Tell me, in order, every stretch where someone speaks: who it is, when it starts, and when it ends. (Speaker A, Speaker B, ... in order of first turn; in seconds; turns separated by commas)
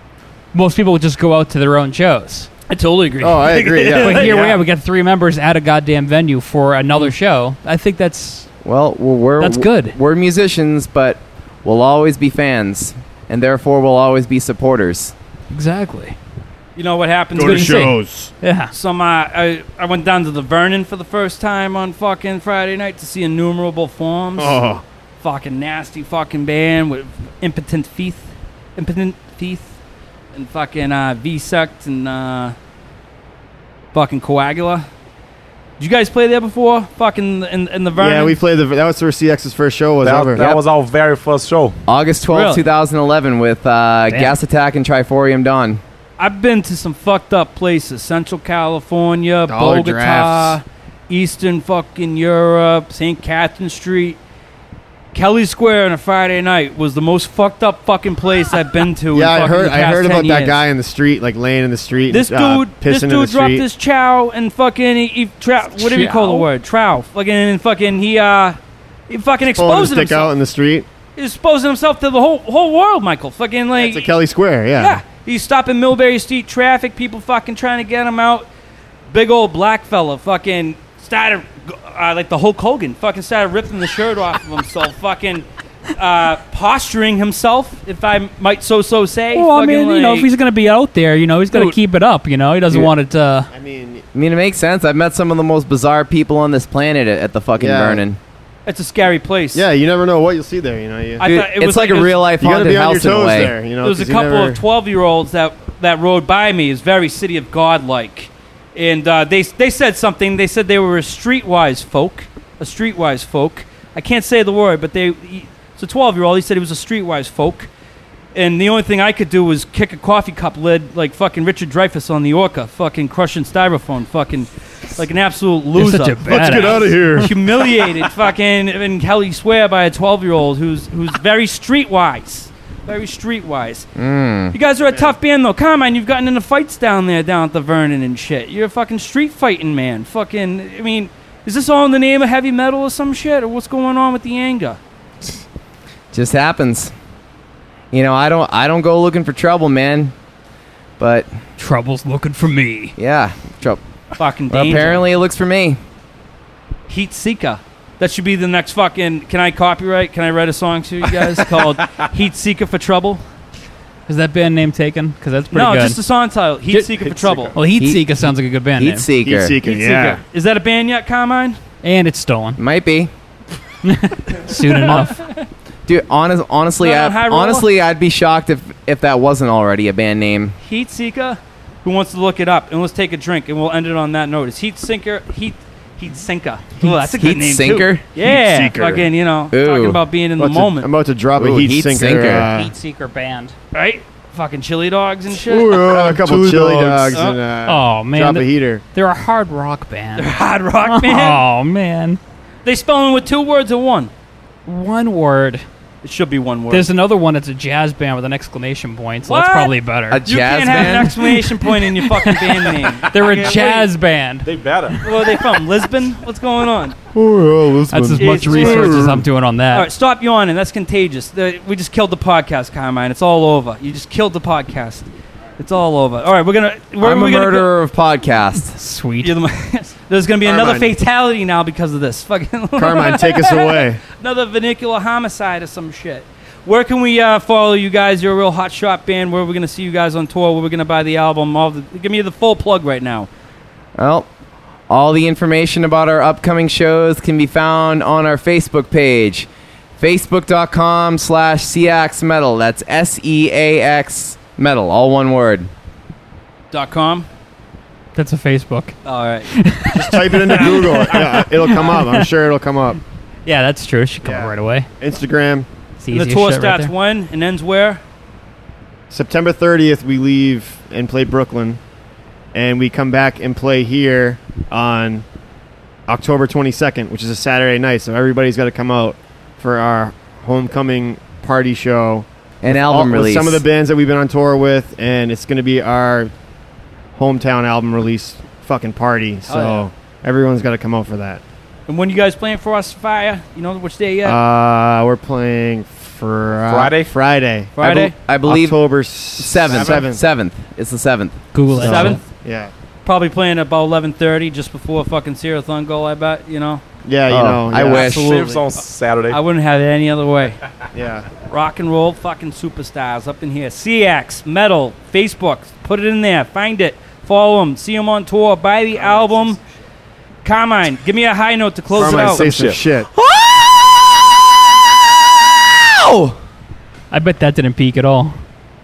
Speaker A: 0.5-2.5, Speaker B: 2.7-4.6, Speaker C: 3.2-4.5, Speaker A: 4.0-8.5, Speaker D: 8.6-15.1, Speaker A: 9.4-9.9, Speaker A: 15.5-16.2, Speaker B: 16.8-17.9, Speaker C: 17.4-18.3, Speaker A: 17.4-18.7, Speaker B: 18.7-24.6, Speaker C: 24.4-24.8, Speaker B: 25.2-29.8, Speaker B: 30.3-32.6, Speaker B: 33.9-34.9, Speaker B: 35.8-38.4, Speaker C: 38.0-40.5, Speaker E: 40.0-41.8, Speaker D: 41.9-45.8, Speaker B: 42.3-42.7, Speaker A: 44.1-44.4, Speaker B: 46.2-54.2, Speaker C: 49.5-50.6, Speaker B: 55.1-60.6, Speaker C: 59.1-63.6, Speaker B: 62.1-68.6, Speaker A: 65.7-66.5, Speaker B: 69.1-70.3, Speaker C: 69.5-70.9, Speaker B: 71.2-74.1, Speaker C: 73.8-75.0, Speaker B: 74.8-78.5, Speaker B: 79.1-90.3, Speaker A: 89.3-93.5, Speaker B: 91.5-91.8, Speaker C: 93.5-94.0, Speaker D: 94.1-98.2, Speaker C: 97.6-98.0, Speaker B: 98.7-99.6, Speaker C: 99.5-101.2, Speaker B: 101.2-102.2, Speaker D: 101.2-103.6, Speaker C: 102.4-104.6, Speaker B: 103.8-117.7, Speaker B: 118.3-133.9, Speaker A: 125.8-127.3, Speaker C: 126.3-128.1, Speaker D: 134.0-134.6, Speaker B: 134.5-144.8, Speaker C: 134.9-135.1, Speaker D: 146.1-146.9, Speaker D: 147.9-150.1, Speaker D: 151.0-151.3, Speaker A: 151.6-152.9, Speaker D: 153.0-153.8, Speaker B: 154.2-155.1, Speaker D: 154.5-155.8, Speaker B: 156.9-163.2, Speaker A: 164.1-166.0, Speaker B: 165.5-167.6, Speaker C: 167.0-167.5, Speaker A: 167.6-169.1, Speaker D: 167.8-168.1, Speaker D: 168.8-169.6, Speaker C: 169.2-170.2, Speaker B: 169.6-171.6, Speaker A: 171.8-172.6, Speaker D: 172.6-173.1, Speaker A: 173.8-175.3, Speaker B: 174.5-175.5, Speaker D: 175.9-180.6, Speaker B: 176.8-177.7, Speaker B: 180.6-190.9, Speaker A: 186.8-187.2, Speaker D: 187.2-188.1, Speaker C: 188.2-189.1, Speaker D: 189.5-190.0, Speaker C: 190.4-192.7, Speaker D: 191.4-192.5, Speaker A: 192.4-193.6, Speaker B: 193.7-196.1, Speaker C: 195.4-198.8, Speaker E: 195.9-197.2, Speaker B: 197.1-197.4, Speaker A: 197.6-202.2, Speaker B: 200.2-201.4, Speaker B: 202.6-204.1, Speaker A: 204.7-205.6, Speaker B: 206.0-206.9, Speaker A: 206.7-210.2, Speaker B: 209.2-213.9, Speaker D: 210.1-211.2, Speaker A: 210.7-215.6, Speaker E: 213.1-213.5, Speaker E: 214.4-215.0, Speaker B: 215.0-217.0, Speaker C: 217.1-219.2, Speaker A: 217.9-219.9, Speaker B: 218.2-219.1, Speaker B: 219.7-227.7, Speaker D: 227.0-228.7, Speaker A: 228.7-229.4, Speaker B: 229.2-243.3, Speaker C: 230.4-230.9, Speaker C: 232.8-234.0, Speaker D: 244.0-244.3, Speaker D: 244.9-255.7, Speaker B: 256.7-257.3, Speaker A: 258.1-259.0, Speaker B: 259.1-259.6, Speaker A: 259.5-262.3, Speaker C: 259.9-263.0, Speaker B: 260.5-261.9, Speaker A: 263.5-264.9, Speaker C: 264.2-265.7, Speaker A: 266.0-266.9, Speaker B: 266.1-268.0, Speaker C: 269.1-271.8, Speaker C: 272.5-275.2, Speaker C: 276.1-286.3, Speaker D: 282.6-283.6, Speaker C: 287.1-291.4, Speaker B: 289.5-289.9, Speaker B: 291.9-294.4, Speaker C: 294.2-297.8, Speaker E: 296.7-297.1, Speaker B: 297.8-298.1, Speaker D: 297.8-298.8, Speaker C: 298.4-300.2, Speaker D: 299.4-301.4, Speaker E: 299.7-300.0, Speaker A: 301.5-302.2, Speaker B: 301.7-302.2, Speaker C: 301.8-302.7, Speaker B: 303.1-306.8, Speaker C: 307.1-308.1, Speaker D: 307.3-308.3, Speaker B: 307.7-310.6, Speaker E: 308.0-309.4, Speaker C: 310.9-311.3, Speaker B: 311.4-319.6, Speaker E: 319.0-319.4, Speaker B: 320.4-322.5, Speaker C: 321.9-323.1, Speaker E: 322.0-322.8, Speaker D: 323.2-326.4, Speaker A: 327.1-328.3